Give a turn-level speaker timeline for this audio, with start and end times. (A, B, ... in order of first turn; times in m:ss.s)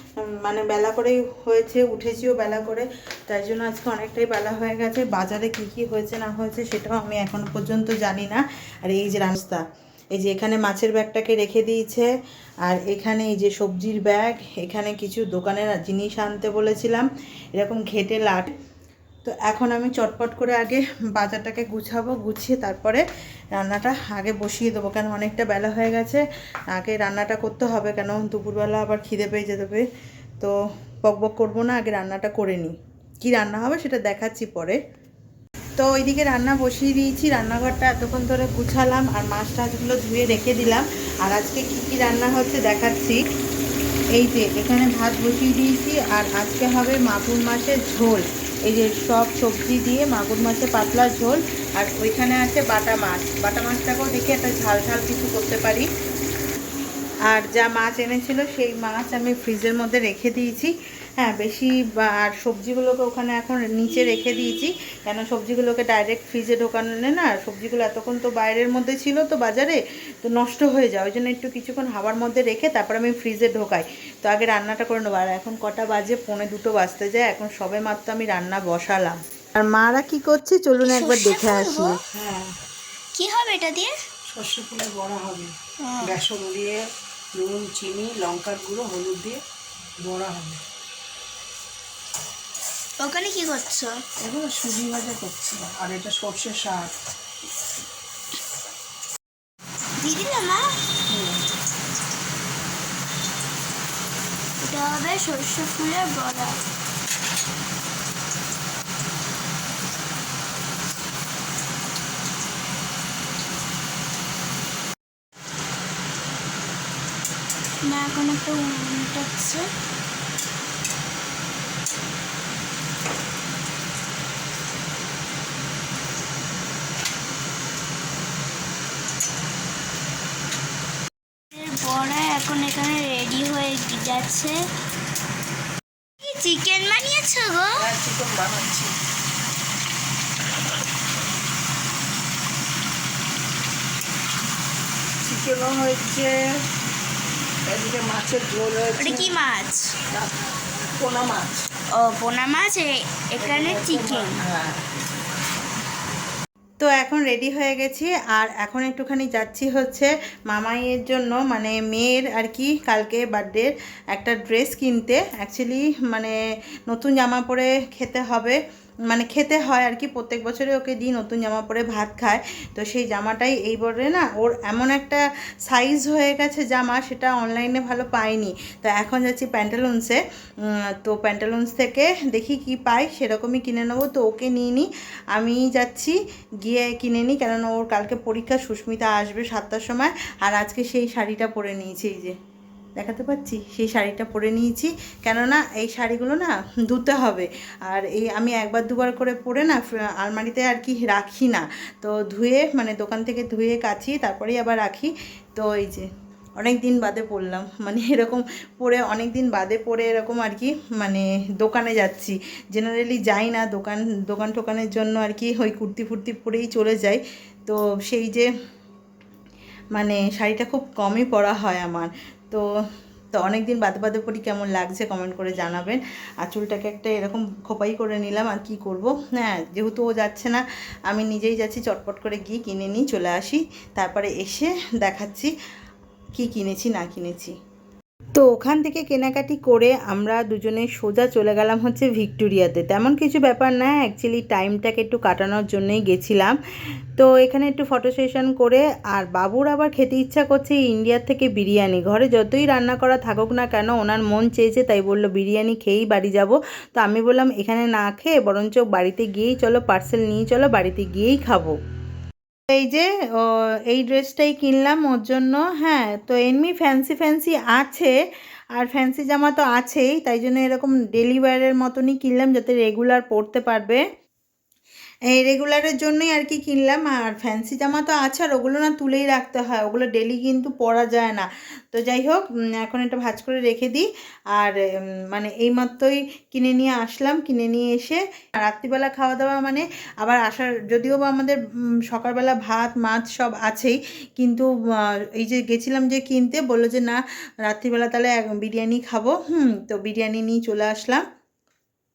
0:00.2-0:09.6 A
0:10.1-0:12.1 A
0:12.6-0:18.5 A
0:19.2-0:29.8 A
0:30.4-0:34.8 A
0:35.8-0:43.2 A
0:44.1-0:55.9 A
0:57.3-1:22.0 A
1:20.8-1:22.0 B
1:22.1-1:22.6 C
1:23.1-1:23.9 B
1:24.3-1:26.8 C
1:25.8-1:26.1 B
1:27.3-1:29.4 C
1:30.0-1:30.6 C
1:33.0-1:34.0 B
1:34.2-1:36.9 C
1:40.0-1:40.6 B
1:41.1-1:41.4 C
1:44.6-1:46.6 B
1:57.8-1:59.7 B
2:11.5-2:14.6 B
2:16.2-2:17.8 B
2:17.7-2:18.9 C
2:25.2-2:26.6 C
2:27.6-2:29.3 C
2:29.0-2:29.9 B
2:30.1-2:31.7 C
2:31.9-2:34.4 B
2:33.4-2:34.8 C
2:36.8-2:46.3 A
2:46.9-2:48.6 A
2:49.1-3:12.3 A
3:13.0-3:26.1 A
3:26.6-3:38.5 A
3:39.9-3:42.6 A
3:43.3-3:55.5 A
3:56.4-3:57.5 A
3:58.4-4:06.6 A
4:07.2-4:21.8 A
4:22.7-4:28.1 A
4:28.7-4:34.0 A
4:35.3-4:44.8 A
4:45.3-5:01.2 A